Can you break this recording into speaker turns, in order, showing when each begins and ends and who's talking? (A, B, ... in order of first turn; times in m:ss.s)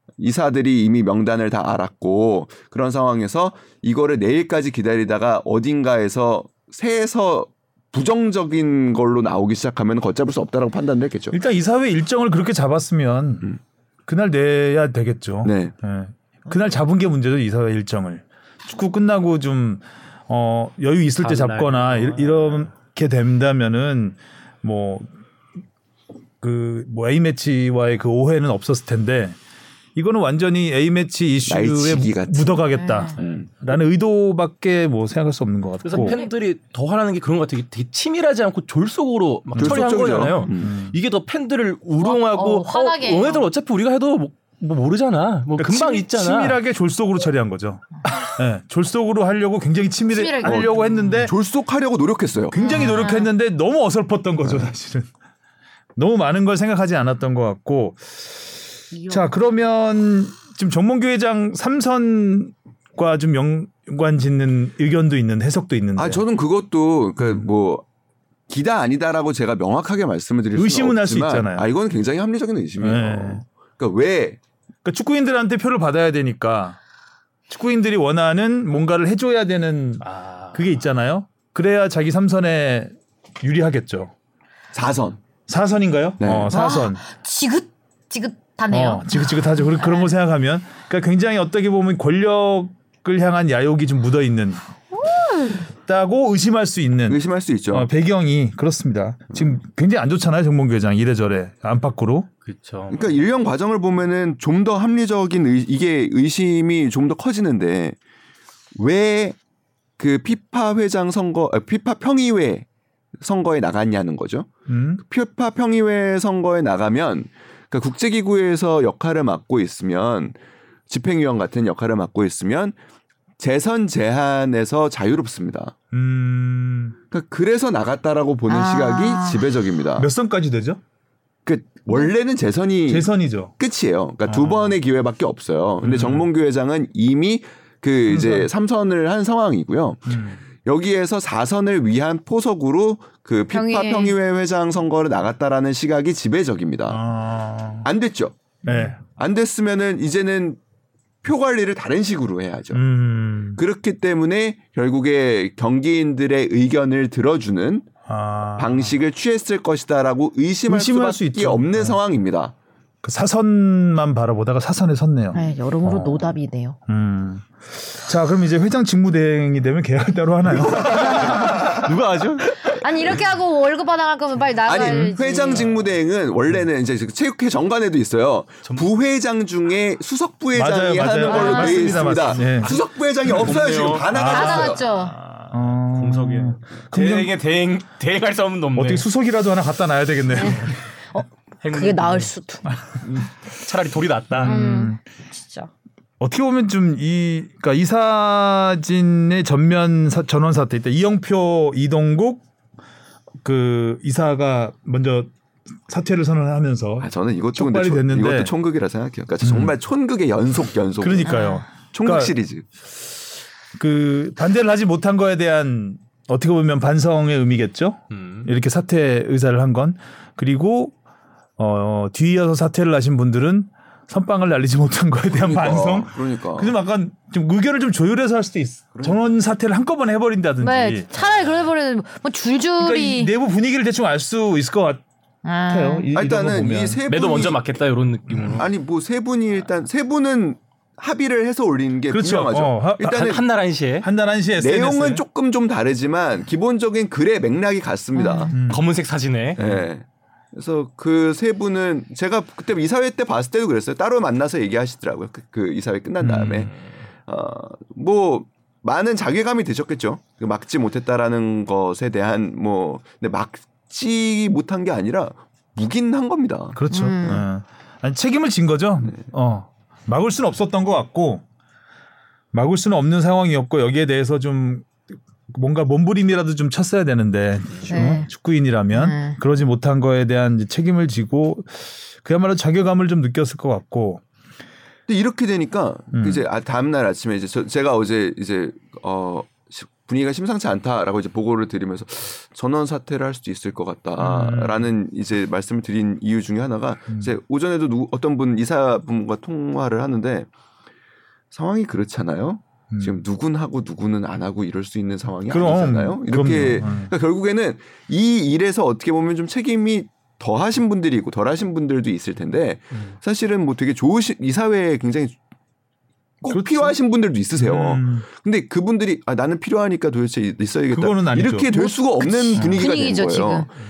0:00.2-0:11.4 A
0:11.3-0:13.5 B
0:14.0-0:25.1 B
0:15.4-0:15.7 A
0:21.2-0:22.7 C
0:26.4-0:29.4 B
0:29.9-0:36.2 B
0:31.4-0:33.6 A
0:32.7-0:33.2 D
0:35.8-0:46.6 C
0:35.9-0:36.3 D
0:39.5-0:41.0 B
0:39.6-0:40.8 A
0:42.0-0:43.4 D
0:45.6-0:51.3 B
0:50.1-0:50.8 D
0:50.4-0:52.6 A
0:52.5-0:55.1 B
0:52.5-0:53.3 D
0:56.0-0:58.5 B
0:58.9-0:59.3 D
0:59.1-1:06.2 B
1:06.0-1:07.8 A
1:08.5-1:14.4 A
1:10.5-1:11.7 B
1:12.8-1:13.4 B
1:14.8-1:16.8 B
1:17.5-1:24.1 B
1:20.0-1:20.6 C
1:24.7-1:25.2 A
1:25.5-1:27.0 B
1:26.2-1:26.5 A
1:26.5-1:30.1 D
1:28.7-1:34.6 B
1:34.9-1:35.6 D
1:35.8-1:42.3 B
1:37.1-1:37.9 A
1:42.4-1:43.1 C
1:42.9-1:48.0 A
1:48.8-1:49.4 A
1:50.0-1:52.6 A
1:53.2-1:54.5 A
1:54.7-1:55.0 B
1:55.0-2:00.4 A
2:00.9-2:02.8 A
2:03.4-2:05.7 A
2:05.9-2:07.0 B
2:07.1-2:10.1 A
2:08.5-2:09.5 D
2:10.0-2:10.8 B
2:11.4-2:27.0 A
2:12.9-2:13.5 B
2:14.2-2:14.7 B
2:15.8-2:16.3 B
2:18.1-2:18.5 B
2:20.1-2:20.4 B
2:23.5-2:24.2 D
2:26.9-2:27.9 B
2:27.8-2:28.4 A
2:28.6-2:29.0 B
2:29.0-2:30.6 A
2:31.2-2:32.8 A
2:32.7-2:33.6 B
2:33.6-2:37.9 A
2:38.0-2:38.9 B
2:38.6-2:42.5 A
2:40.7-2:42.0 B
2:43.0-2:46.3 B
2:45.3-2:46.8 D
2:46.9-2:51.9 B
2:50.8-2:52.7 A
2:50.9-2:51.4 D
2:51.4-2:52.2 C
2:52.6-2:55.7 D
2:54.6-3:04.8 A
3:00.5-3:02.7 B
3:01.2-3:02.0 D
3:01.7-3:09.0 C
3:04.1-3:04.8 B
3:04.2-3:05.2 D
3:05.5-3:07.3 B
3:08.7-3:10.8 B
3:10.3-3:12.6 D
3:11.6-3:12.3 C
3:13.0-3:14.6 C
3:14.3-3:15.0 B
3:14.4-3:15.7 D
3:16.2-3:22.4 B
3:23.4-3:25.3 B
3:25.9-3:28.5 B
3:27.0-3:32.6 A
3:29.4-3:29.7 B
3:31.0-3:32.3 B
3:31.2-3:31.6 D
3:33.8-3:40.9 B
3:38.1-3:38.4 C
3:41.6-3:51.1 B
3:45.3-3:46.7 A
3:48.9-3:49.2 A
3:50.6-3:53.3 D
3:52.8-3:55.0 B
3:55.4-3:56.1 D
3:55.7-3:57.0 B
3:56.1-3:57.6 A
3:57.1-3:58.7 C
3:58.3-3:58.6 B
3:58.5-4:03.4 A
4:02.1-4:03.4 B
4:03.0-4:04.1 C
4:04.0-4:05.2 B
4:04.6-4:08.5 A
4:08.1-4:08.5 D
4:08.5-4:08.8 B
4:08.6-4:09.6 C
4:09.6-4:16.7 A
4:16.2-4:16.7 B
4:17.2-4:26.8 A
4:26.7-4:31.4 B
4:26.9-4:27.4 D
4:32.5-4:34.9 B
4:35.5-4:44.2 B
4:37.9-4:38.3 D
4:38.9-4:39.4 D
4:45.1-5:00.5 A
4:46.1-4:46.4 B
4:54.2-4:54.9 B
5:01.5-5:15.4 A
5:02.9-5:03.2 B
5:05.5-5:07.1 B
5:16.4-5:23.7 A
5:16.5-5:17.0 B
5:17.6-5:18.2 B
5:20.9-5:21.7 B
5:21.7-5:23.7 D
5:22.5-5:22.9 B